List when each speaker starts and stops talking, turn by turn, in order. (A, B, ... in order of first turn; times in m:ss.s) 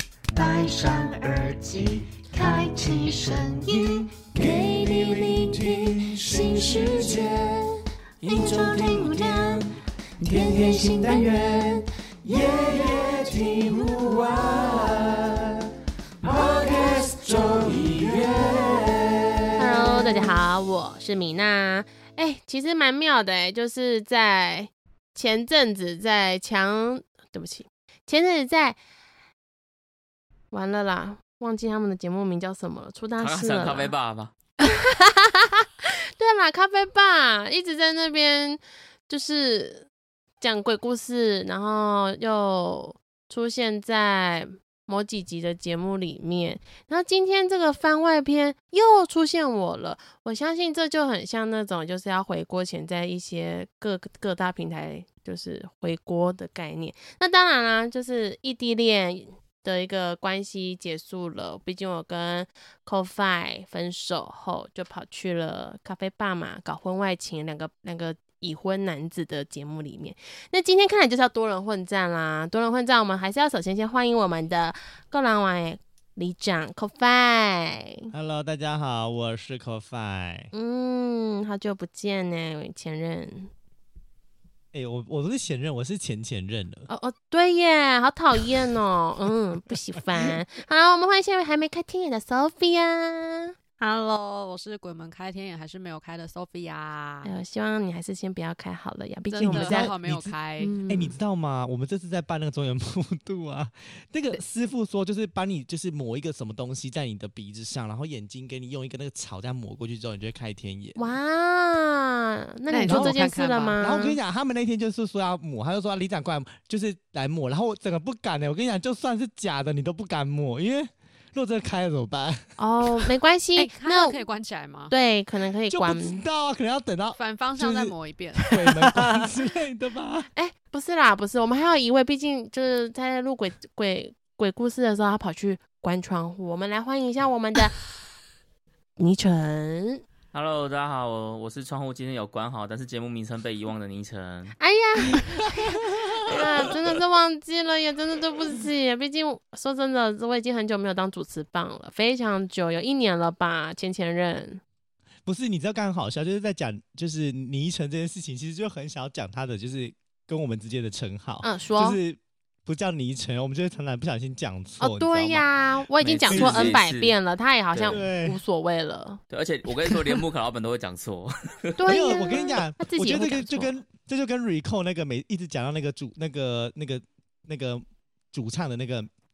0:00.3-0:15.7 A
0:16.2-0:20.2 A
0:19.6-0:28.8 B
0:30.5-0:33.9 B
0:33.2-0:34.3 C
0:34.6-0:39.9 B
0:40.4-1:18.1 B
1:18.1-1:20.5 D
1:20.5-1:23.5 B
1:24.7-1:26.9 D
1:26.9-1:33.5 B
1:33.8-1:37.3 E
1:37.2-1:39.9 B
1:39.3-1:40.7 E
1:39.4-1:40.4 D
1:40.6-1:41.2 B
1:40.9-1:51.1 D
1:51.0-1:54.2 B
1:52.7-1:53.8 E
1:52.8-1:53.2 D
1:53.8-2:03.1 D
2:02.6-2:04.2 B
2:03.6-2:04.9 E
2:04.9-2:06.2 B
2:05.7-2:07.9 D
2:07.2-2:09.3 E
2:08.5-2:10.3 D
2:10.3-2:17.7 B
2:19.0-2:20.0 B
2:20.3-2:24.6 C
2:24.6-2:34.6 B
2:26.3-2:26.8 C
2:35.2-2:45.5 D
2:41.4-2:42.0 B
2:44.8-2:49.2 B
2:46.0-2:47.2 C
2:46.3-2:46.8 D
2:47.7-2:48.0 C
2:47.9-2:48.4 D
2:49.3-2:51.8 C
2:51.8-2:53.7 B
2:51.9-2:59.1 D